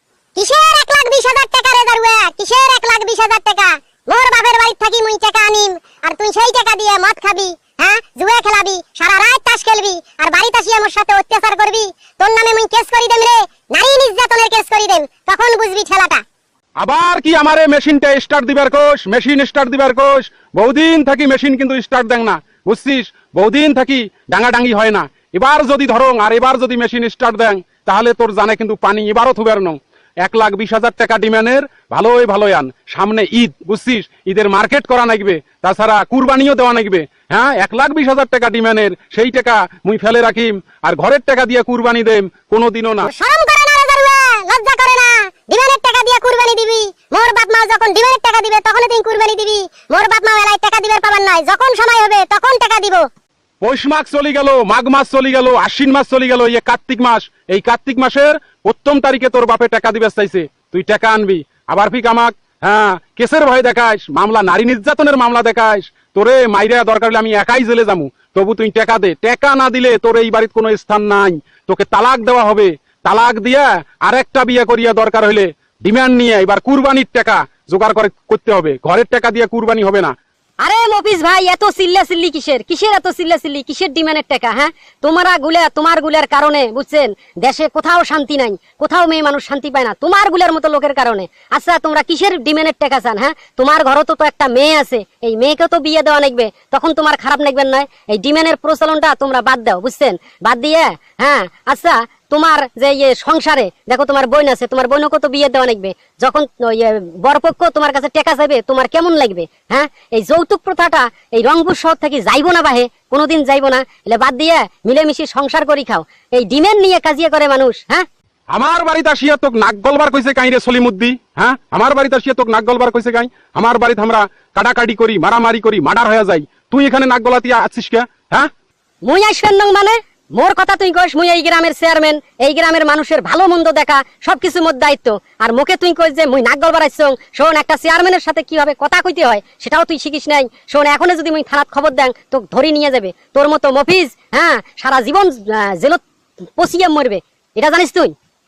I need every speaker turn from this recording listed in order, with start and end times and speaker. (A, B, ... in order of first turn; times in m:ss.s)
0:00.4-0:16.2 A
0:16.8-0:43.1 B
0:43.0-0:53.0 A
0:53.6-1:20.1 B
1:20.6-1:58.0 C
1:58.5-2:08.5 B
2:09.0-2:26.0 C
2:26.6-2:28.1 C